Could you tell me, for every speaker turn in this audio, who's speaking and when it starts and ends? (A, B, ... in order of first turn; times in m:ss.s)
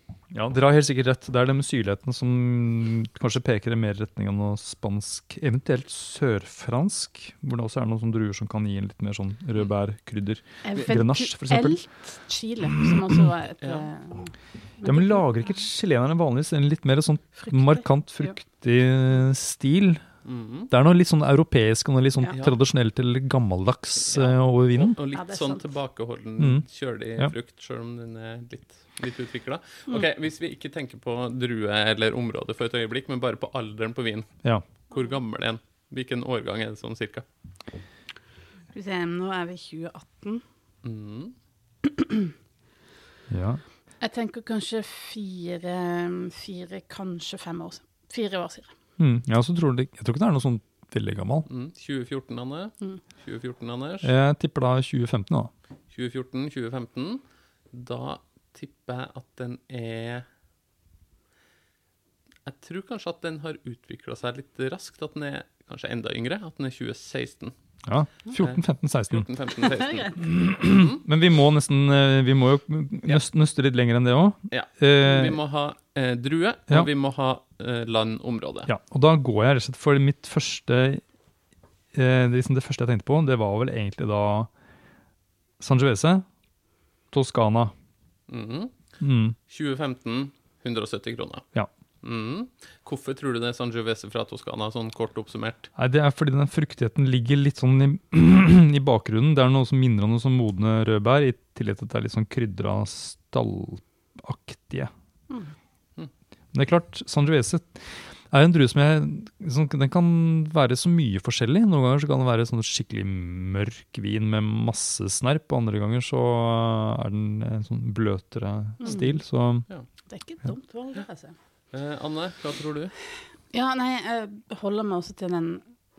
0:00.3-0:11.8 A
0:10.6-0:15.3 B
0:12.7-0:13.3 A
0:14.8-0:20.0 A
0:17.4-0:18.4 B
0:20.2-0:20.7 C
0:20.7-0:25.0 A
0:24.1-0:34.3 C
0:25.1-0:25.7 B
0:26.4-0:26.6 A
0:34.9-0:37.2 C
0:38.7-0:40.4 B
0:40.8-0:41.3 C
0:41.9-0:42.2 B
0:43.3-0:43.6 A
0:44.0-0:48.7 B
0:49.0-0:51.5 A
0:51.5-0:54.1 C
0:54.0-0:55.5 A
0:55.9-1:00.2 C
1:02.4-1:07.5 C
1:07.8-1:09.3 A
1:08.4-1:11.0 C
1:10.2-1:15.4 A
1:14.5-1:18.7 C
1:18.7-1:21.0 A
1:21.9-1:24.5 A
1:25.6-1:26.2 A
1:27.1-1:27.7 A
1:28.3-1:28.7 C
1:29.0-1:29.4 A
1:29.5-1:31.4 C
1:32.0-1:35.7 C
1:35.8-1:44.9 A
1:46.5-1:59.6 A
1:58.8-1:59.2 B
2:00.1-2:01.3 B
2:01.7-2:02.9 C
2:03.5-2:05.6 B